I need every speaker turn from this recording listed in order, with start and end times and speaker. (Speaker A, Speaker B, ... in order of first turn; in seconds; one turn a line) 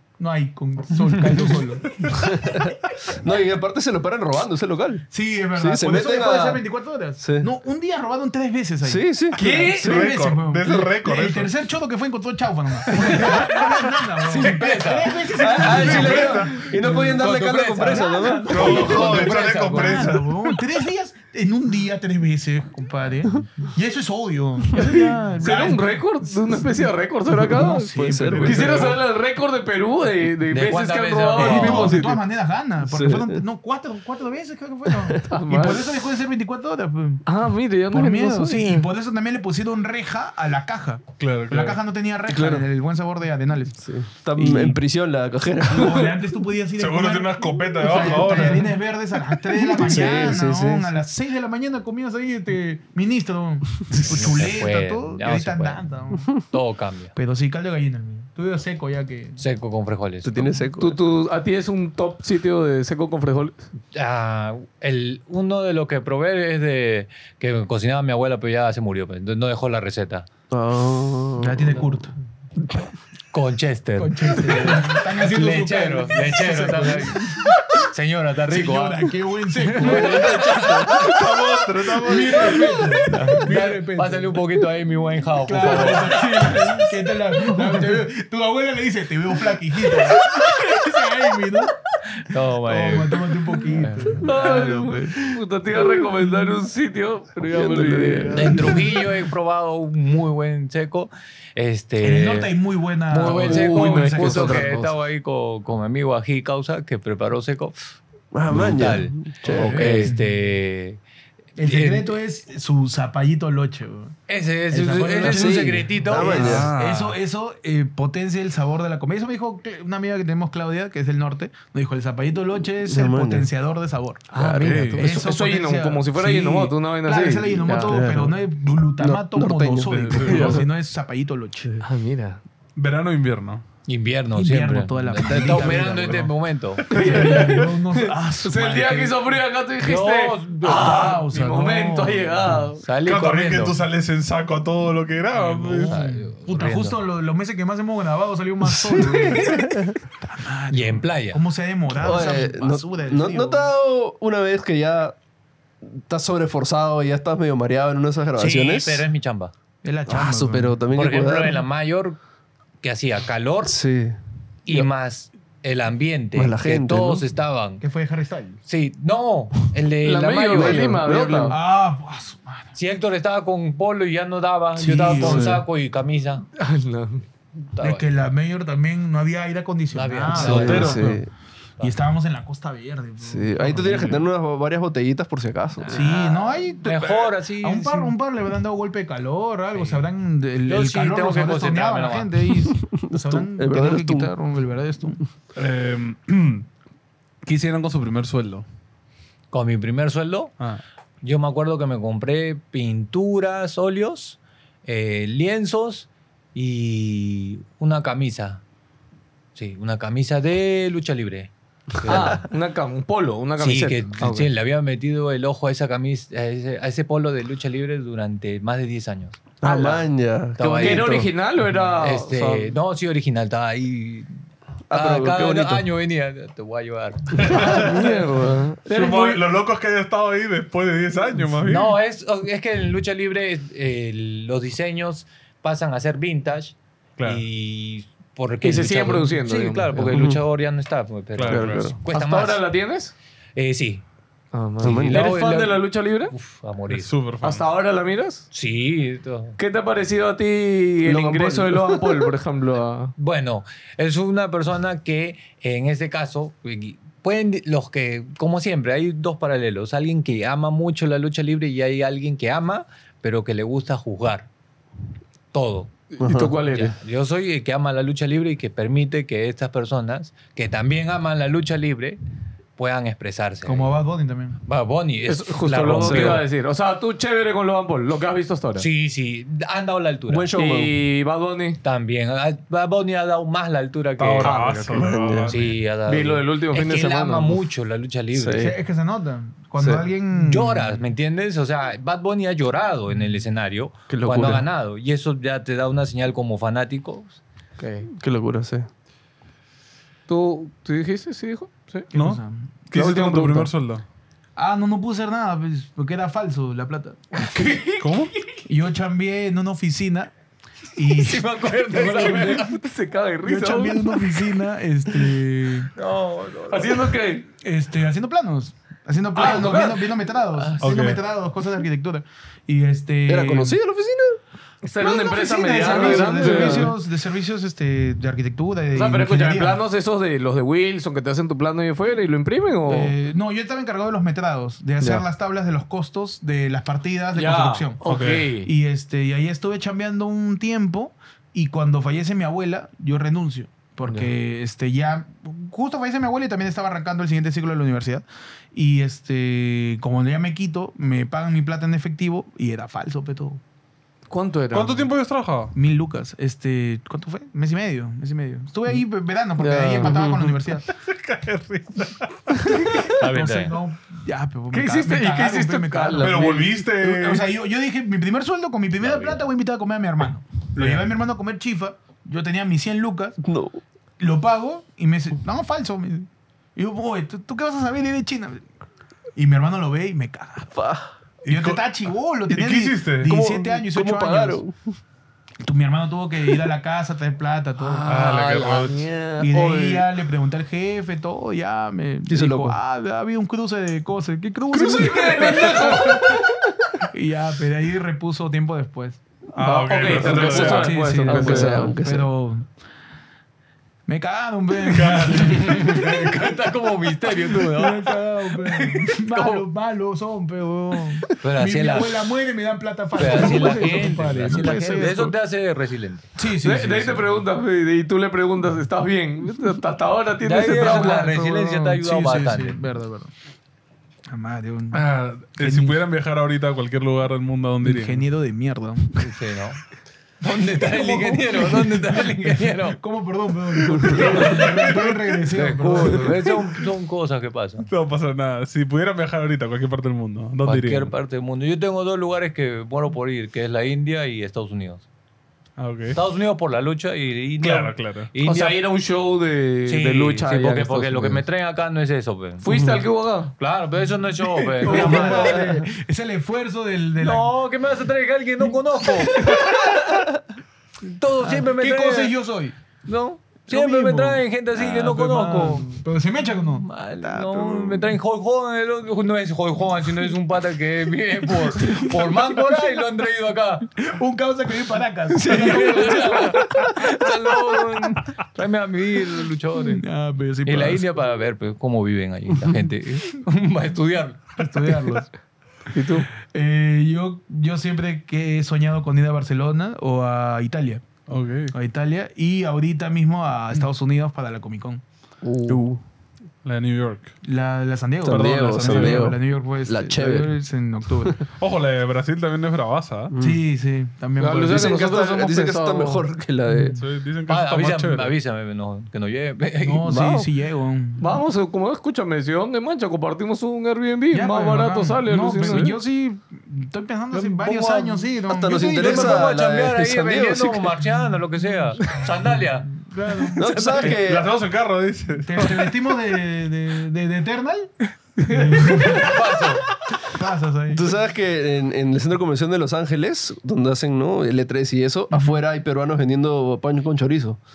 Speaker A: 0.2-2.3
Speaker B: 2.2-5.0
Speaker A: 5.1-29.0
Speaker B: 5.5-6.6
Speaker B: 7.2-7.5
Speaker B: 8.8-10.0
Speaker C: 9.4-9.8
Speaker D: 9.8-11.5
Speaker E: 13.0-13.6
Speaker E: 14.2-20.2
Speaker B: 15.4-18.9
Speaker D: 15.6-16.7
Speaker D: 18.5-20.5
Speaker C: 24.7-27.8
Speaker B: 27.4-28.9
Speaker C: 28.4-32.1
Speaker D: 28.5-28.9
Speaker E: 30.5-32.0
Speaker B: 31.4-32.2
Speaker A: 31.4-37.2
Speaker B: 32.8-33.4
Speaker B: 34.9-35.2
Speaker C: 35.3-35.9
Speaker C: 37.2-38.9
Speaker A: 37.9-43.8
Speaker D: 41.2-41.8
Speaker B: 42.3-42.7
Speaker B: 43.8-46.2
Speaker A: 44.3-44.8
Speaker A: 45.7-56.3
Speaker D: 46.7-48.8
Speaker B: 49.6-50.9
Speaker E: 53.9-57.1
Speaker A: 57.1-59.4
Speaker E: 59.4-60.5
Speaker B: 60.2-61.0
Speaker C: 60.8-63.6
Speaker E: 63.9-70.3
Speaker B: 70.5-71.8
Speaker A: 71.4-72.1
Speaker E: 73.3-79.1
Speaker A: 74.0-77.9
Speaker A: 78.5-81.2
Speaker E: 79.7-81.0
Speaker B: 79.8-80.9
Speaker D: 80.9-83.0
Speaker A: 81.9-84.4
Speaker E: 83.1-86.8
Speaker A: 85.4-91.8
Speaker E: 92.2-94.3
Speaker A: 92.5-95.2
Speaker C: 94.2-98.8
Speaker B: 97.5-98.8
Speaker E: 98.3-102.5
Speaker A: 102.0-104.7
Speaker E: 103.1-111.0
Speaker C: 103.2-104.9
Speaker B: 108.3-110.1
Speaker A: 109.5-110.4
Speaker A: 111.6-114.2
Speaker E: 111.6-112.1
Speaker E: 114.3-116.8
Speaker A: 114.7-124.4
Speaker B: 115.2-116.7
Speaker D: 116.5-117.1
Speaker B: 122.8-123.5
Speaker C: 124.3-128.0
Speaker B: 124.3-124.9
Speaker D: 124.5-125.0
Speaker A: 124.9-131.7
Speaker B: 127.8-128.4
Speaker B: 129.0-130.7
Speaker D: 129.9-130.6
Speaker C: 131.8-132.4
Speaker D: 132.8-133.6
Speaker E: 133.9-136.8
Speaker A: 134.3-136.3
Speaker B: 135.2-136.1
Speaker D: 136.9-137.7
Speaker A: 136.9-139.2
Speaker C: 136.9-137.8
Speaker C: 138.4-142.8
Speaker E: 139.8-141.2
Speaker A: 140.6-142.6
Speaker E: 142.8-143.8
Speaker D: 143.0-146.0
Speaker A: 145.3-153.7
Speaker E: 145.7-147.0
Speaker B: 148.8-149.9
Speaker E: 150.7-151.4
Speaker B: 151.9-155.2
Speaker B: 155.8-159.1
Speaker E: 158.3-159.5
Speaker A: 159.8-160.8
Speaker B: 160.1-161.6
Speaker E: 160.9-162.2
Speaker E: 162.8-163.8
Speaker B: 163.7-164.2
Speaker E: 164.7-167.8
Speaker B: 166.3-167.2
Speaker A: 167.8-168.6
Speaker E: 168.7-171.5
Speaker C: 170.0-171.6
Speaker B: 170.5-171.5
Speaker A: 171.5-172.7
Speaker E: 172.7-176.4
Speaker A: 174.8-175.6
Speaker B: 175.1-175.6
Speaker C: 176.6-177.2
Speaker E: 177.7-178.1
Speaker A: 177.8-181.2
Speaker E: 179.9-181.1
Speaker B: 180.3-181.3
Speaker D: 180.5-180.8
Speaker A: 181.8-184.3
Speaker B: 183.2-186.0
Speaker E: 185.8-188.2
Speaker A: 185.9-195.2
Speaker E: 189.7-190.0
Speaker E: 190.6-192.5
Speaker B: 192.8-194.3
Speaker D: 195.6-196.7
Speaker D: 197.4-198.7
Speaker E: 199.5-200.5
Speaker E: 201.2-208.6
Speaker E: 209.5-212.4
Speaker C: 212.0-214.5
Speaker B: 212.1-212.4
Speaker E: 213.6-219.4
Speaker B: 219.6-221.3
Speaker C: 219.6-220.0
Speaker E: 220.6-221.3
Speaker C: 220.7-222.7
Speaker E: 221.9-224.3
Speaker B: 224.9-225.8
Speaker E: 224.9-227.9
Speaker D: 227.3-227.9
Speaker C: 227.5-229.5
Speaker B: 227.8-228.1
Speaker D: 228.9-231.9
Speaker E: 231.6-242.6
Speaker D: 237.2-237.4
Speaker C: 238.6-240.3
Speaker B: 240.1-240.4
Speaker D: 241.3-242.0
Speaker B: 241.5-241.9
Speaker C: 242.1-243.1
Speaker E: 243.6-244.0
Speaker C: 244.5-246.3
Speaker B: 244.8-245.2
Speaker E: 244.8-247.1
Speaker D: 246.9-247.6
Speaker C: 247.4-248.5
Speaker E: 248.5-249.6
Speaker C: 249.6-253.1
Speaker B: 251.0-252.2
Speaker E: 253.2-264.5
Speaker E: 265.5-265.9
Speaker C: 266.1-266.9
Speaker B: 266.2-266.6
Speaker E: 266.7-272.2
Speaker E: 272.8-273.9
Speaker A: 273.6-274.6
Speaker E: 274.6-276.4
Speaker C: 275.2-278.9
Speaker B: 276.0-276.4
Speaker E: 278.8-280.5
Speaker B: 280.3-280.9
Speaker C: 280.5-281.8
Speaker E: 281.8-284.6
Speaker D: 284.2-285.8
Speaker C: 284.4-285.1
Speaker B: 284.9-285.5
Speaker E: 285.5-288.7
Speaker C: 286.0-287.6
Speaker B: 288.3-288.7
Speaker A: 288.6-291.1
Speaker B: 289.8-290.0
Speaker E: 290.3-297.4
Speaker B: 294.1-294.6
Speaker C: 297.8-298.1
Speaker B: 298.1-298.9
Speaker C: 300.3-302.1
Speaker A: 302.1-302.7
Speaker D: 302.1-304.0
Speaker C: 302.9-303.7
Speaker A: 304.6-307.5
Speaker C: 307.3-308.5
Speaker D: 308.0-308.3
Speaker A: 308.6-310.3
Speaker A: 310.9-312.7
Speaker E: 311.0-312.8
Speaker C: 312.0-314.4
Speaker A: 313.4-315.9
Speaker E: 315.9-317.1
Speaker C: 316.7-317.5
Speaker A: 317.6-323.8
Speaker C: 319.4-320.1
Speaker D: 320.8-321.2
Speaker B: 323.3-324.4
Speaker C: 324.8-326.9
Speaker A: 325.0-329.8
Speaker B: 325.9-326.9
Speaker C: 328.9-333.1
Speaker A: 332.9-353.6
Speaker C: 337.3-338.7
Speaker D: 338.0-338.5
Speaker C: 354.3-355.1
Speaker D: 354.7-355.7
Speaker A: 355.7-360.9
Speaker C: 359.6-360.2
Speaker B: 360.0-360.5
Speaker D: 360.8-363.1
Speaker A: 363.0-373.4
Speaker E: 363.2-363.7
Speaker C: 364.7-366.8
Speaker D: 366.2-367.5
Speaker E: 369.0-369.4
Speaker D: 370.8-371.1
Speaker B: 373.4-373.8
Speaker A: 374.2-378.6
Speaker A: 379.4-380.7
Speaker B: 380.7-381.1
Speaker A: 381.4-384.6
Speaker D: 381.5-381.9
Speaker D: 382.5-383.3
Speaker B: 383.2-385.0
Speaker A: 385.6-388.2
Speaker D: 388.0-389.0
Speaker C: 388.1-389.1
Speaker E: 388.1-388.6
Speaker B: 388.8-390.1
Speaker A: 389.4-396.3
Speaker B: 392.3-392.8
Speaker C: 394.8-396.3
Speaker B: 395.0-395.8
Speaker A: 397.1-399.2
Speaker D: 399.5-401.0
Speaker C: 399.6-401.9
Speaker B: 400.1-402.3
Speaker A: 400.2-402.7
Speaker A: 404.1-406.0
Speaker D: 404.8-406.3
Speaker E: 405.4-408.2
Speaker A: 407.5-415.3
Speaker E: 409.0-409.6
Speaker E: 411.4-412.3
Speaker E: 413.1-416.3
Speaker A: 416.3-417.2
Speaker C: 416.6-421.7
Speaker E: 420.4-422.8
Speaker A: 420.7-423.3
Speaker A: 424.3-425.0
Speaker D: 424.9-428.2
Speaker A: 425.6-426.0
Speaker A: 427.8-429.2
Speaker E: 429.1-429.8
Speaker E: 430.4-433.0
Speaker A: 430.8-436.4
Speaker B: 433.9-434.3
Speaker D: 434.2-435.4
Speaker E: 435.5-437.9
Speaker D: 437.8-441.1
Speaker E: 440.6-445.1
Speaker D: 445.8-446.2
Speaker E: 446.1-448.8
Speaker D: 447.6-448.3
Speaker C: 448.4-451.4
Speaker E: 449.9-453.0
Speaker C: 452.6-453.5
Speaker E: 453.6-455.8
Speaker A: 454.4-457.5
Speaker C: 454.8-455.6
Speaker E: 457.2-459.8
Speaker A: 459.4-459.8
Speaker E: 461.0-462.3
Speaker A: 461.4-462.8
Speaker E: 463.0-466.0
Speaker A: 463.7-468.0
Speaker E: 466.7-473.9
Speaker A: 471.8-472.6
Speaker A: 473.9-476.9
Speaker B: 475.4-476.8
Speaker E: 475.4-480.1
Speaker A: 479.8-481.2
Speaker E: 480.6-484.6
Speaker A: 484.6-485.3
Speaker C: 485.9-486.3
Speaker A: 486.4-491.0
Speaker D: 491.3-491.7
Speaker A: 491.7-495.0
Speaker B: 495.4-496.0
Speaker D: 496.6-497.3
Speaker A: 497.4-501.4
Speaker B: 498.2-500.5
Speaker D: 498.3-499.4
Speaker D: 501.6-503.3
Speaker B: 503.3-503.6
Speaker A: 503.4-504.9
Speaker C: 504.4-506.3
Speaker B: 504.7-507.0
Speaker A: 506.7-507.0
Speaker D: 507.0-508.3
Speaker E: 507.5-510.2
Speaker A: 509.8-511.4
Speaker B: 510.1-510.5
Speaker C: 511.2-515.9
Speaker A: 514.3-519.5
Speaker B: 515.6-515.9
Speaker E: 517.3-518.3
Speaker B: 518.5-521.0
Speaker E: 518.9-524.2
Speaker A: 523.0-524.2
Speaker B: 523.6-524.5
Speaker D: 524.0-525.9
Speaker A: 525.4-529.4
Speaker C: 528.4-529.2
Speaker E: 529.1-529.8
Speaker A: 530.2-531.1
Speaker B: 530.9-537.6
Speaker A: 535.3-535.6